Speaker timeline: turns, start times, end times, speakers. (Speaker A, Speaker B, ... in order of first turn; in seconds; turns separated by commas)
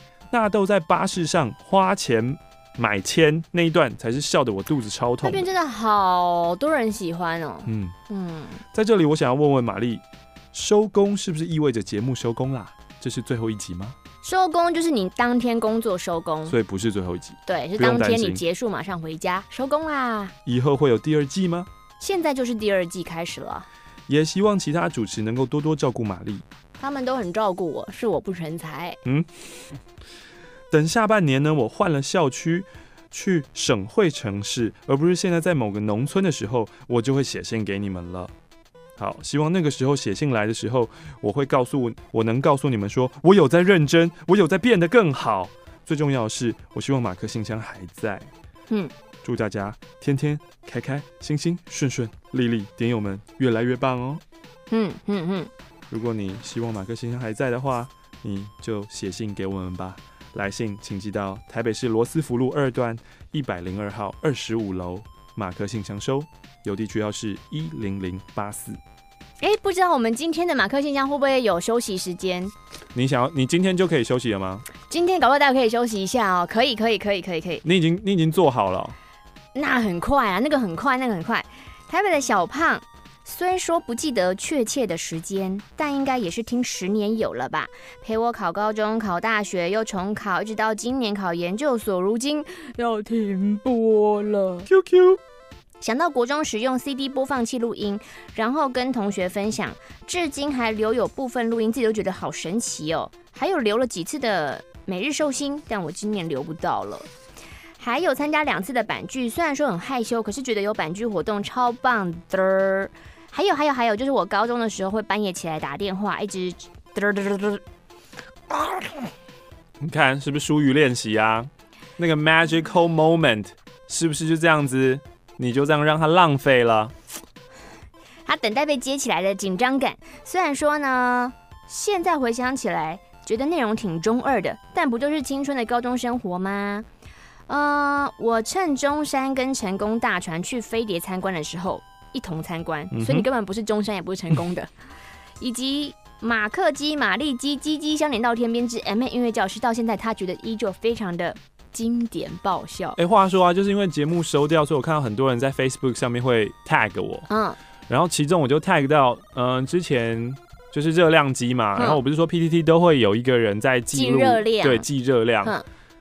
Speaker A: 0.3-5.5, Speaker B: 5.2-8.6, Speaker A: 7.7-8.0, Speaker A: 8.7-14.0, Speaker B: 14.2-16.6, Speaker A: 16.5-18.4, Speaker B: 17.5-20.3, Speaker A: 20.5-21.7, Speaker B: 22.0-23.7, Speaker A: 24.1-26.4, Speaker B: 26.8-29.0, Speaker A: 29.1-29.4, Speaker A: 30.7-38.3, Speaker A: 39.0-48.3, Speaker A: 49.2-54.2, Speaker B: 54.7-55.5, Speaker A: 55.9-68.8, Speaker B: 69.4-72.5, Speaker A: 72.9-74.7, Speaker B: 74.8-77.6, Speaker A: 77.6-79.0, Speaker B: 79.5-94.7, Speaker A: 94.7-95.2, Speaker B: 95.8-107.1, Speaker B: 107.8-117.6, Speaker B: 118.5-118.9, Speaker A: 119.8-126.9, Speaker B: 128.2-136.9, Speaker B: 137.5-144.7, Speaker A: 142.9-143.3, Speaker B: 145.4-153.0, Speaker A: 153.0-157.3, Speaker B: 157.3-157.6, Speaker A: 157.9-165.6, Speaker B: 163.9-164.9